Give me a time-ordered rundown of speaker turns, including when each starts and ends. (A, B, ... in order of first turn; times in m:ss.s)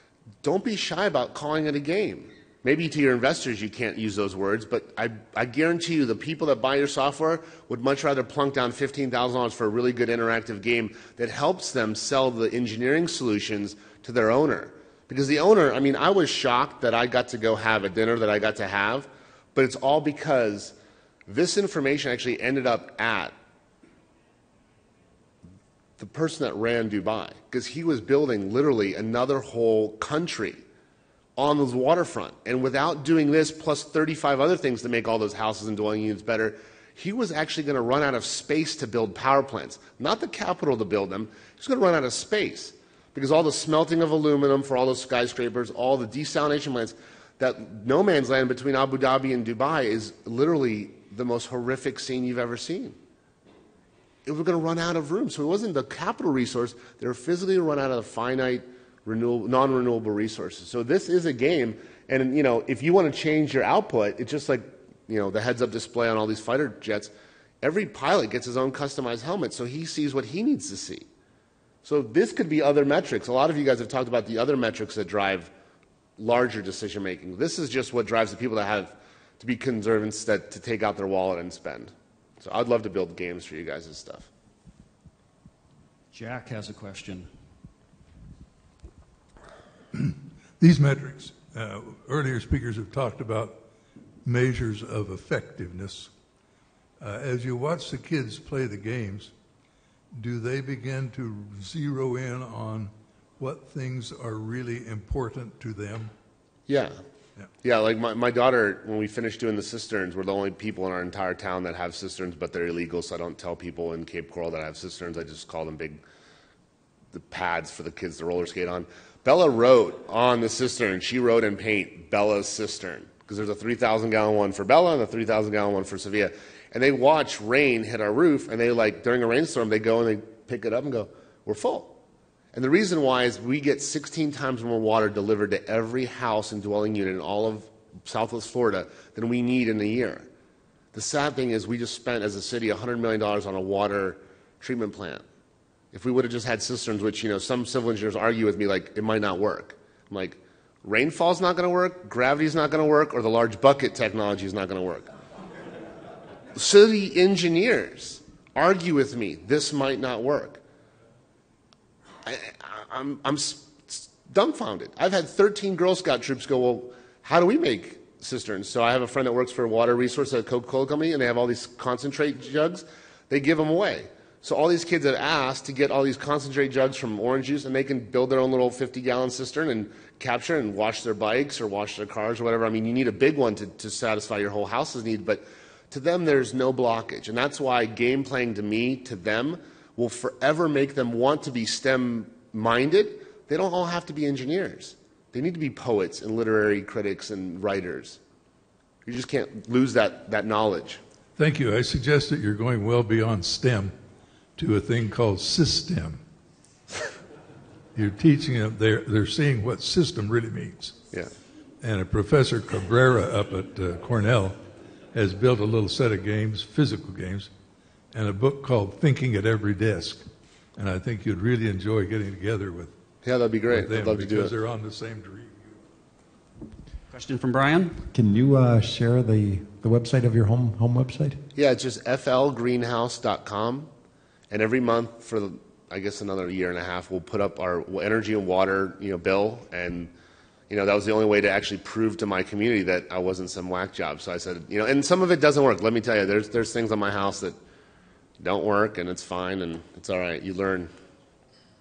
0:00.4-0:20.8 A
0:21.3-0:23.4 A
0:26.0-0:30.6 A
0:31.4-0:53.0 A
0:54.2-1:11.1 A
1:11.8-1:15.5 A
1:16.2-1:24.3 A
1:26.1-1:27.3 B
1:29.9-1:33.6 C
1:34.2-1:36.1 C
1:37.0-1:39.3 C
1:40.2-1:46.1 C
1:46.7-1:47.0 A
1:47.6-1:56.0 A
1:57.1-2:12.0 A
2:12.5-2:20.3 A
2:20.9-2:25.2 A
2:25.9-2:35.1 A
2:36.6-2:40.6 A
2:42.2-3:18.2 A
3:19.0-3:21.0 A
3:21.4-3:23.9 C
3:24.6-3:26.2 C
3:28.0-3:31.0 C
3:31.8-3:34.6 C
3:35.1-3:37.5 C
3:38.1-3:40.2 C
3:40.8-3:42.9 C
3:43.2-3:44.5 A
3:43.7-3:45.8 C
3:47.1-3:48.0 B
3:48.1-3:51.4 D
3:51.6-3:53.9 A
3:54.5-4:00.1 A
4:00.7-4:07.6 A
4:08.4-4:10.9 A